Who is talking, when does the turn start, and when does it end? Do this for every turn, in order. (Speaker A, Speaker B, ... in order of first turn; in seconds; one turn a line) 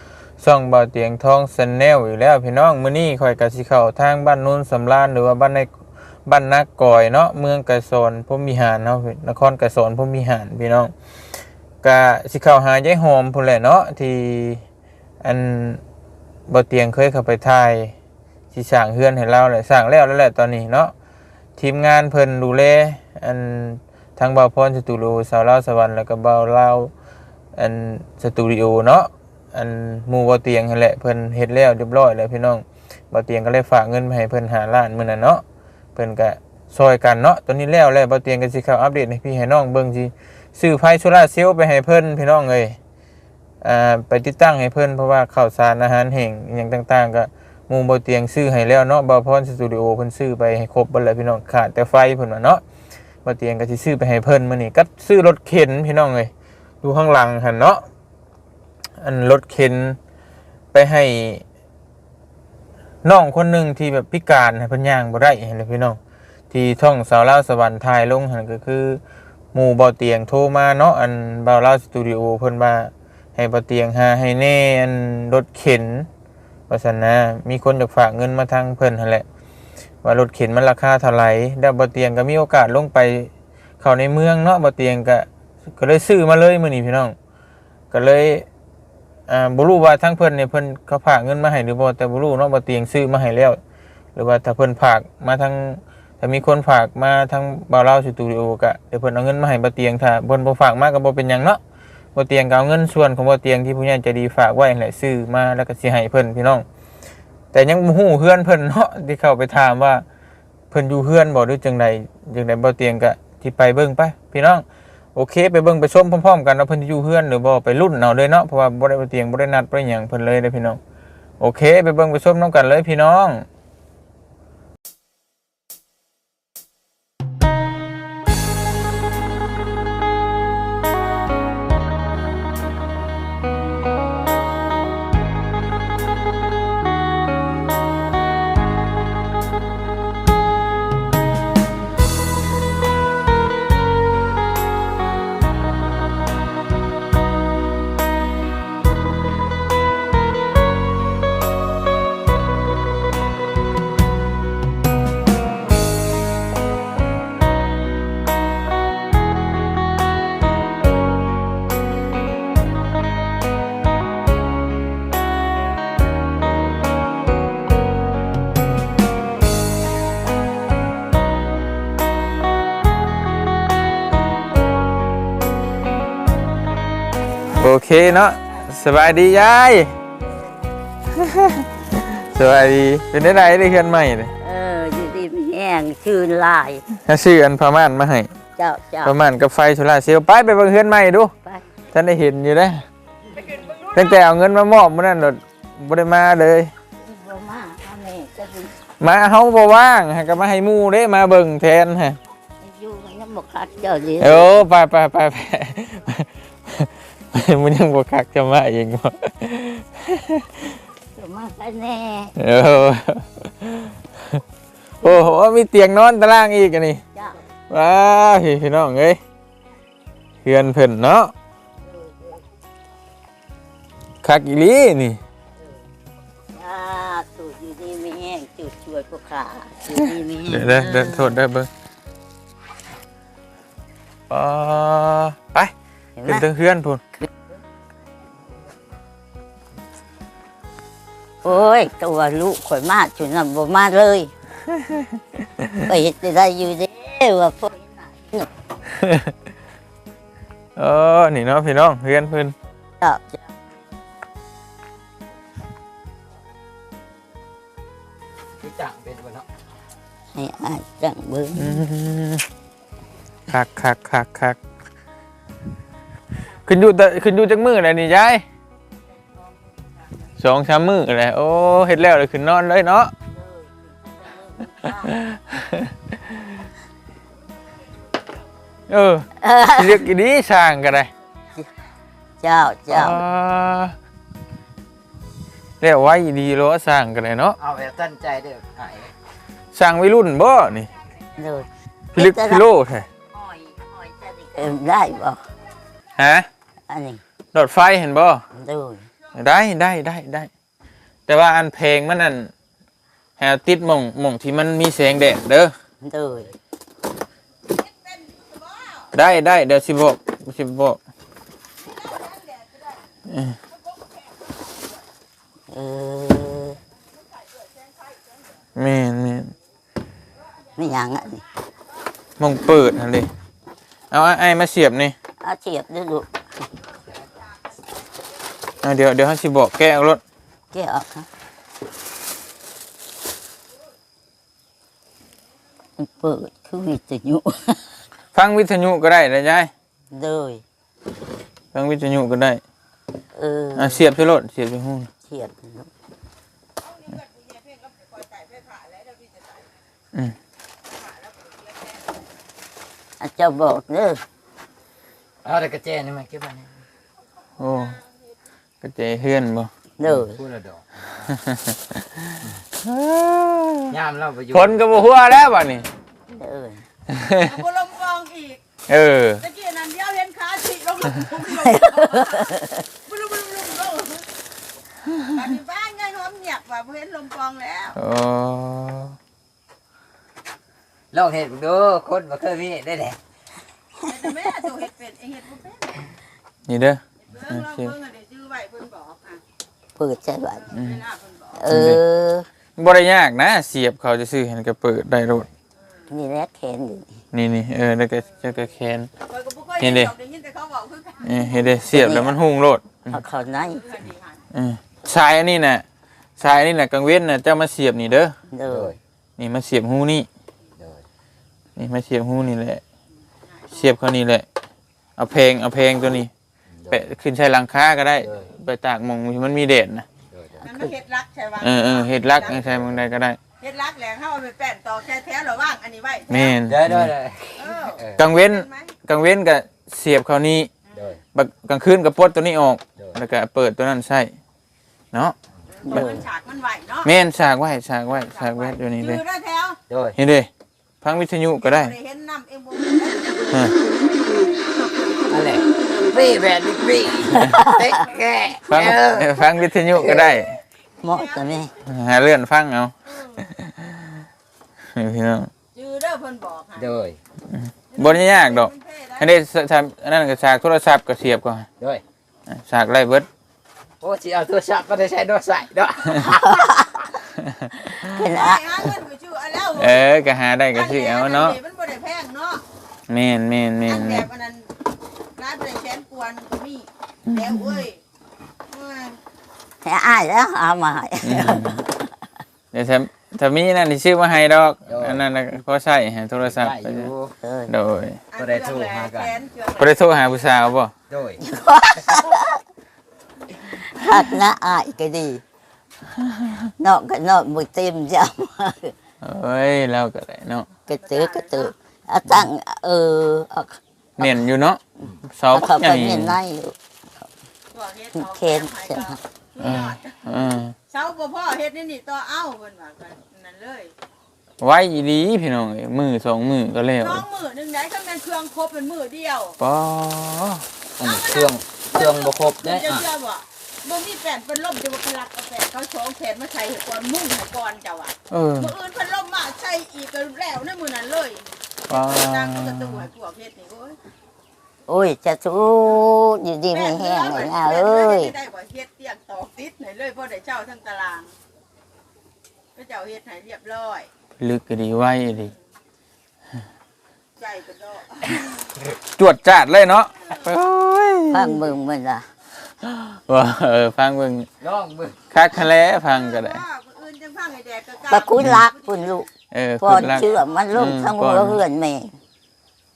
Speaker A: 0.4-5.7
Speaker A: 6.2-10.9
Speaker A: 11.8-14.6
Speaker A: 15.2-15.8
Speaker A: 16.5-17.9
Speaker A: 18.5-20.9
Speaker A: 21.6-26.9
Speaker A: 27.6-35.4
Speaker A: 36.0-42.8
Speaker A: 43.6-52.6
Speaker A: 53.2-57.8
Speaker A: 59.0-60.0
Speaker A: 60.7-61.4
Speaker A: 63.0-66.0
Speaker A: 66.5-69.0
Speaker A: 69.5-76.1
Speaker A: 76.7-79.2
Speaker A: 80.0-87.1
Speaker A: 87.9-88.5
Speaker A: 89.3-93.6
Speaker A: 94.1-101.6
Speaker A: 102.1-106.6
Speaker A: 107.5-110.0
Speaker A: 110.7-120.8
Speaker A: 121.4-123.4
Speaker A: 177.5-179.9
Speaker A: 181.2-184.3
Speaker B: 184.4-186.8
Speaker A: 187.0-188.3
Speaker B: 188.6-189.2
Speaker A: 189.0-191.3
Speaker A: 191.9-192.8
Speaker A: 193.9-196.7
Speaker B: 197.0-198.7
Speaker A: 199.0-202.2
Speaker B: 202.6-204.6
Speaker A: 204.2-210.4
Speaker B: 211.2-212.3
Speaker A: 212.4-214.4
Speaker A: 215.0-217.0
Speaker A: 217.7-219.2
Speaker A: 220.4-221.3
Speaker A: 224.2-225.2
Speaker B: 226.5-231.4
Speaker A: 230.5-231.7
Speaker A: 234.3-235.7
Speaker B: 236.2-236.4
Speaker A: 236.2-237.0
Speaker B: 241.4-244.3
Speaker A: 244.7-245.9
Speaker B: 245.8-248.5
Speaker A: 248.9-249.3
Speaker A: 250.8-252.5
Speaker B: 253.0-253.4
Speaker C: 258.6-259.5
Speaker B: 260.3-261.8
Speaker A: 261.6-262.4
Speaker A: 263.5-264.6
Speaker A: 266.6-268.4
Speaker A: 270.4-273.1
Speaker B: 273.3-275.1
Speaker A: 275.1-276.4
Speaker A: 278.9-281.1
Speaker B: 279.4-280.0
Speaker B: 282.4-283.2
Speaker A: 282.9-283.9
Speaker A: 285.8-287.6
Speaker C: 287.6-289.1
Speaker A: 289.7-290.9
Speaker B: 291.4-292.6
Speaker A: 292.1-293.1
Speaker B: 293.3-295.4
Speaker A: 296.2-296.5
Speaker B: 296.9-297.2
Speaker A: 297.5-298.4
Speaker B: 298.5-299.1
Speaker A: 299.3-300.5
Speaker A: 301.3-302.5
Speaker A: 303.4-305.7
Speaker B: 306.0-306.5
Speaker D: 308.2-309.1
Speaker A: 309.1-311.0
Speaker D: 312.0-312.7
Speaker A: 313.3-313.6
Speaker B: 315.7-316.8
Speaker A: 318.8-319.5
Speaker B: 320.8-321.4
Speaker A: 322.4-323.3
Speaker A: 324.1-325.1
Speaker B: 325.4-326.3
Speaker A: 328.8-330.2
Speaker B: 330.7-331.3
Speaker B: 336.0-337.9
Speaker A: 338.3-339.7
Speaker B: 340.1-340.6
Speaker A: 341.7-342.6
Speaker B: 343.3-344.1
Speaker A: 343.8-345.1
Speaker B: 345.2-345.9
Speaker D: 347.1-349.6
Speaker D: 351.0-352.1
Speaker B: 353.2-354.2
Speaker C: 355.4-356.7
Speaker A: 357.6-358.0
Speaker A: 358.8-359.7
Speaker B: 360.0-360.4
Speaker C: 360.0-361.0
Speaker A: 361.3-363.9
Speaker C: 363.9-364.8
Speaker A: 364.5-365.9
Speaker B: 366.3-366.8
Speaker A: 367.1-367.5
Speaker D: 367.4-368.6
Speaker A: 368.9-369.4
Speaker D: 369.4-374.3
Speaker B: 371.5-372.8
Speaker D: 375.3-378.0
Speaker A: 377.9-379.1
Speaker C: 381.1-383.2
Speaker D: 384.0-386.1
Speaker A: 386.7-387.9
Speaker D: 387.3-389.4
Speaker B: 390.0-390.7
Speaker D: 390.6-391.6
Speaker A: 390.7-391.0
Speaker B: 391.6-392.4
Speaker A: 391.7-392.0
Speaker A: 392.8-395.5
Speaker B: 396.1-397.1
Speaker A: 397.3-399.1
Speaker D: 399.3-401.4
Speaker A: 399.8-400.1
Speaker A: 401.2-403.2
Speaker B: 401.9-402.4
Speaker B: 403.1-404.0
Speaker D: 403.9-404.4
Speaker A: 404.5-405.8
Speaker A: 406.4-408.3
Speaker B: 408.5-408.9
Speaker C: 408.7-409.0
Speaker A: 409.4-410.3
Speaker C: 410.8-411.0
Speaker A: 411.8-412.8
Speaker A: 413.7-414.4
Speaker A: 415.2-416.3
Speaker A: 416.9-420.1
Speaker C: 420.3-420.6
Speaker D: 420.6-422.7
Speaker A: 421.6-423.4
Speaker C: 422.4-423.0
Speaker D: 423.6-426.6
Speaker A: 426.3-427.1
Speaker C: 426.7-428.2
Speaker D: 427.6-428.9
Speaker A: 428.2-430.7
Speaker C: 430.9-431.2
Speaker A: 431.3-434.3
Speaker D: 435.9-437.1
Speaker B: 435.9-436.3
Speaker A: 437.0-439.2
Speaker D: 438.2-439.8
Speaker C: 439.9-440.1
Speaker A: 440.1-440.5
Speaker A: 441.0-441.9
Speaker D: 441.6-443.5
Speaker A: 443.5-443.8
Speaker C: 445.3-449.3
Speaker B: 447.3-448.0
Speaker A: 448.6-450.6
Speaker B: 448.7-449.0
Speaker C: 449.9-450.3
Speaker B: 451.0-451.7
Speaker D: 451.1-451.6
Speaker A: 451.8-454.1
Speaker A: 454.9-455.5
Speaker D: 455.7-456.9
Speaker C: 456.8-457.2
Speaker A: 457.5-461.7
Speaker D: 457.9-459.3
Speaker A: 462.5-463.3
Speaker C: 464.0-466.7
Speaker B: 466.5-467.1
Speaker A: 467.4-467.7
Speaker B: 467.8-468.6
Speaker D: 468.2-470.1
Speaker A: 469.8-471.6
Speaker D: 470.7-472.6
Speaker A: 473.1-474.3
Speaker D: 473.9-474.7
Speaker D: 475.4-478.0
Speaker A: 477.3-477.8
Speaker D: 478.7-479.2
Speaker B: 479.8-482.1
Speaker A: 481.2-481.8
Speaker A: 482.7-487.1
Speaker C: 484.9-485.2
Speaker C: 486.5-487.3
Speaker B: 487.4-487.7
Speaker A: 487.7-488.2
Speaker D: 488.3-490.0
Speaker C: 488.4-489.4
Speaker A: 489.8-490.9
Speaker C: 491.1-491.4
Speaker B: 491.4-492.6
Speaker B: 493.6-495.4
Speaker B: 496.8-498.9
Speaker A: 499.2-500.7
Speaker B: 500.9-504.4
Speaker D: 501.0-501.7
Speaker A: 504.2-506.4
Speaker B: 505.5-506.7
Speaker D: 507.7-510.2
Speaker B: 508.1-509.2
Speaker A: 509.6-510.7
Speaker D: 510.9-513.9
Speaker A: 514.6-517.2
Speaker D: 517.0-519.6
Speaker A: 519.6-520.6
Speaker C: 521.0-523.1
Speaker D: 521.0-534.0
Speaker A: 528.3-528.7
Speaker A: 531.9-533.1
Speaker B: 534.9-538.3
Speaker D: 536.7-541.3
Speaker D: 542.7-544.1
Speaker A: 544.4-545.5
Speaker D: 547.4-548.4
Speaker A: 549.0-551.6
Speaker B: 551.3-552.3
Speaker A: 552.8-554.5
Speaker C: 554.6-555.2
Speaker A: 555.3-556.6
Speaker D: 556.1-558.8
Speaker B: 558.1-559.3
Speaker A: 558.4-558.6
Speaker A: 559.5-561.6
Speaker B: 559.8-562.1